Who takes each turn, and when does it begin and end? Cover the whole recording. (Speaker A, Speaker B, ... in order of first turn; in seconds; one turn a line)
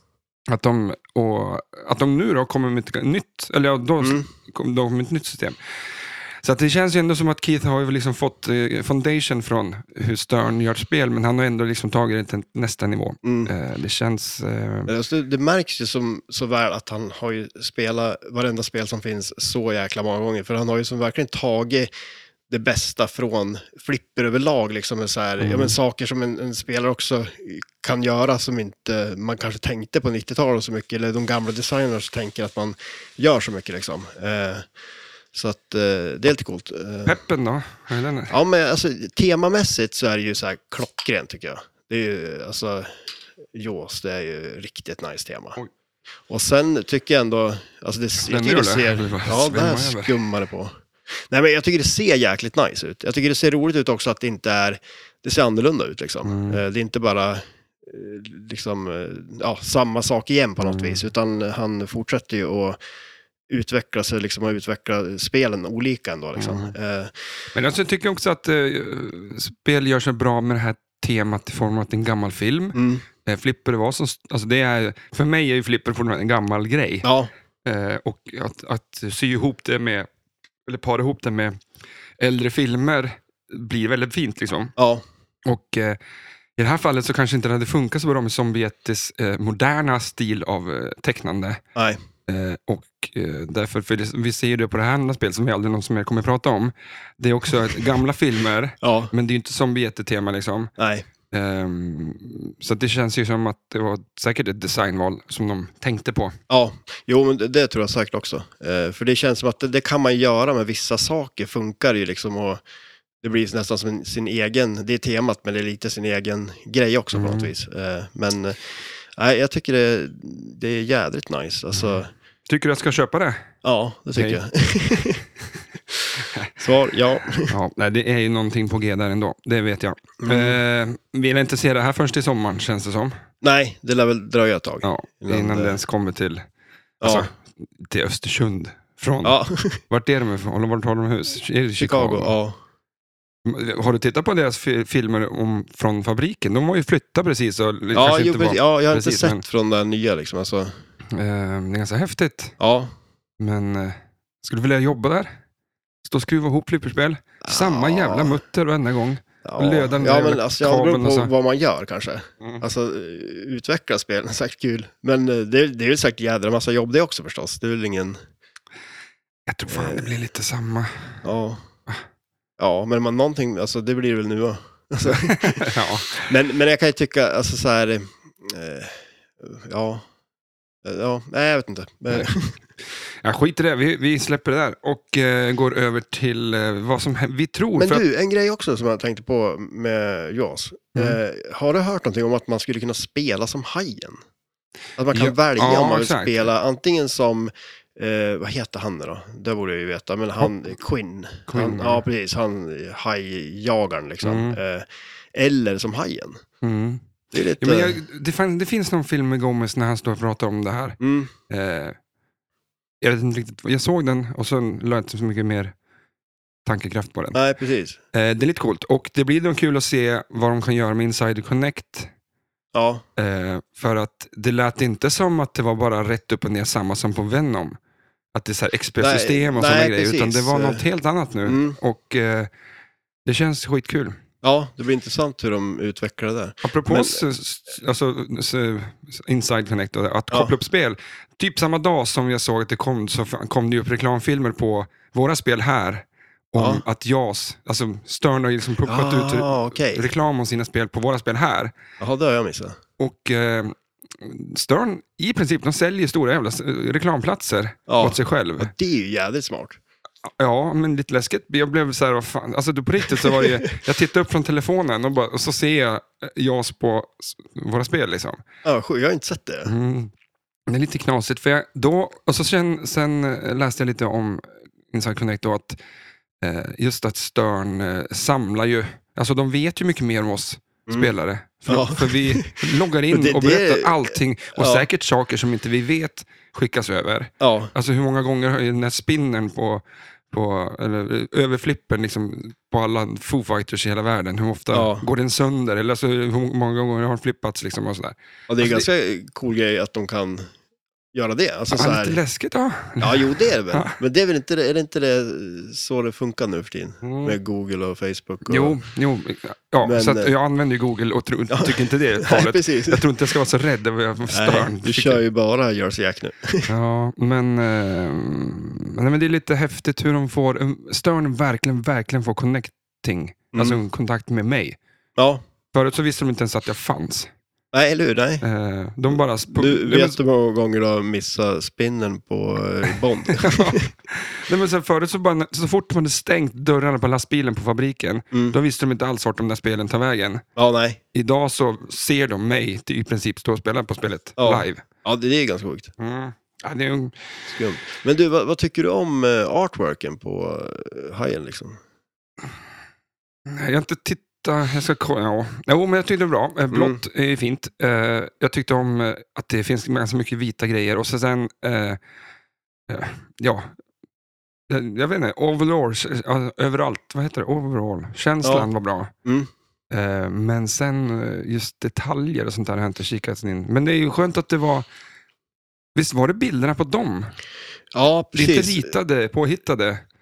Speaker A: 0.5-5.6
Speaker B: 4.0-4.3
Speaker A: 6.4-14.9
Speaker B: 13.2-13.5
Speaker B: 14.9-21.9
Speaker B: 22.5-34.7
Speaker A: 25.4-25.8
Speaker B: 35.3-37.2
Speaker A: 37.1-38.4
Speaker B: 38.3-45.6
Speaker B: 46.3-62.8
Speaker A: 48.3-50.1
Speaker A: 56.2-56.6
Speaker A: 60.6-61.0
Speaker B: 63.5-67.1
Speaker A: 66.4-66.7
Speaker A: 67.5-77.1
Speaker B: 72.8-73.0
Speaker B: 77.0-77.3
Speaker A: 77.7-80.1
Speaker A: 80.7-81.6
Speaker A: 82.2-84.7
Speaker B: 84.8-85.0
Speaker A: 85.5-86.0
Speaker A: 86.6-91.6
Speaker B: 91.8-92.0
Speaker A: 92.3-100.7
Speaker B: 98.8-99.1
Speaker B: 100.8-101.1
Speaker A: 101.3-106.4
Speaker B: 106.5-112.6
Speaker B: 113.2-122.1
Speaker A: 117.1-117.5
Speaker A: 122.5-123.5
Speaker B: 123.6-125.2
Speaker A: 124.2-124.4
Speaker B: 126.2-127.5
Speaker A: 127.4-133.2
Speaker B: 130.2-130.6
Speaker B: 133.4-135.8
Speaker A: 134.8-136.4
Speaker B: 137.0-137.3
Speaker A: 137.0-142.3
Speaker B: 139.2-139.8
Speaker B: 141.8-142.6
Speaker A: 143.4-149.4
Speaker B: 147.9-150.7
Speaker A: 151.1-152.6
Speaker B: 152.6-152.9
Speaker A: 153.4-155.3
Speaker A: 156.0-161.3
Speaker B: 157.4-158.4
Speaker B: 159.4-168.2
Speaker A: 169.5-171.1
Speaker B: 169.7-170.1
Speaker B: 171.2-171.6
Speaker B: 172.6-175.7
Speaker A: 175.0-176.3
Speaker B: 176.2-180.0
Speaker B: 180.8-182.6
Speaker A: 183.2-188.0
Speaker B: 187.8-194.2
Speaker B: 195.0-206.4
Speaker A: 195.1-196.5
Speaker A: 201.5-202.0
Speaker A: 204.2-204.6
Speaker A: 206.6-207.1
Speaker B: 207.3-208.0
Speaker A: 207.6-212.0
Speaker B: 211.0-211.3
Speaker A: 213.0-215.7
Speaker A: 216.7-217.4
Speaker B: 217.3-218.0
Speaker A: 218.1-222.1
Speaker B: 222.7-223.0
Speaker A: 223.2-227.8
Speaker A: 228.3-232.5
Speaker B: 229.0-230.8
Speaker B: 231.5-231.8
Speaker A: 233.2-234.2
Speaker B: 234.4-237.2
Speaker A: 236.6-251.7
Speaker B: 246.6-246.8
Speaker B: 248.8-250.1
Speaker B: 252.0-252.8
Speaker A: 253.0-258.7
Speaker B: 257.9-259.8
Speaker A: 260.4-268.4
Speaker B: 263.2-263.5
Speaker B: 268.6-269.7
Speaker A: 269.6-270.1
Speaker A: 270.7-275.8
Speaker A: 276.4-298.9
Speaker B: 281.7-284.9
Speaker B: 287.4-287.7
Speaker B: 294.7-295.0
Speaker B: 298.5-300.5
Speaker B: 301.1-302.2
Speaker A: 301.7-304.0
Speaker B: 303.0-308.8
Speaker A: 307.0-307.4
Speaker A: 308.5-315.2
Speaker B: 309.8-310.3
Speaker B: 311.5-313.0
Speaker B: 314.3-316.7
Speaker A: 316.7-324.8
Speaker B: 323.5-323.8
Speaker B: 325.2-325.4
Speaker A: 325.7-327.3
Speaker B: 327.7-328.4
Speaker A: 328.4-330.2
Speaker B: 329.5-333.9
Speaker A: 333.3-340.4
Speaker B: 340.6-341.0
Speaker A: 341.1-344.8
Speaker B: 344.4-345.9
Speaker A: 346.0-347.3
Speaker B: 347.5-351.8
Speaker A: 353.5-362.0
Speaker B: 356.7-357.0
Speaker A: 362.9-363.7
Speaker A: 364.7-369.1
Speaker B: 368.4-368.7
Speaker B: 369.2-369.5
Speaker A: 369.9-374.9
Speaker A: 375.9-377.3
Speaker B: 377.9-378.9
Speaker A: 378.3-380.0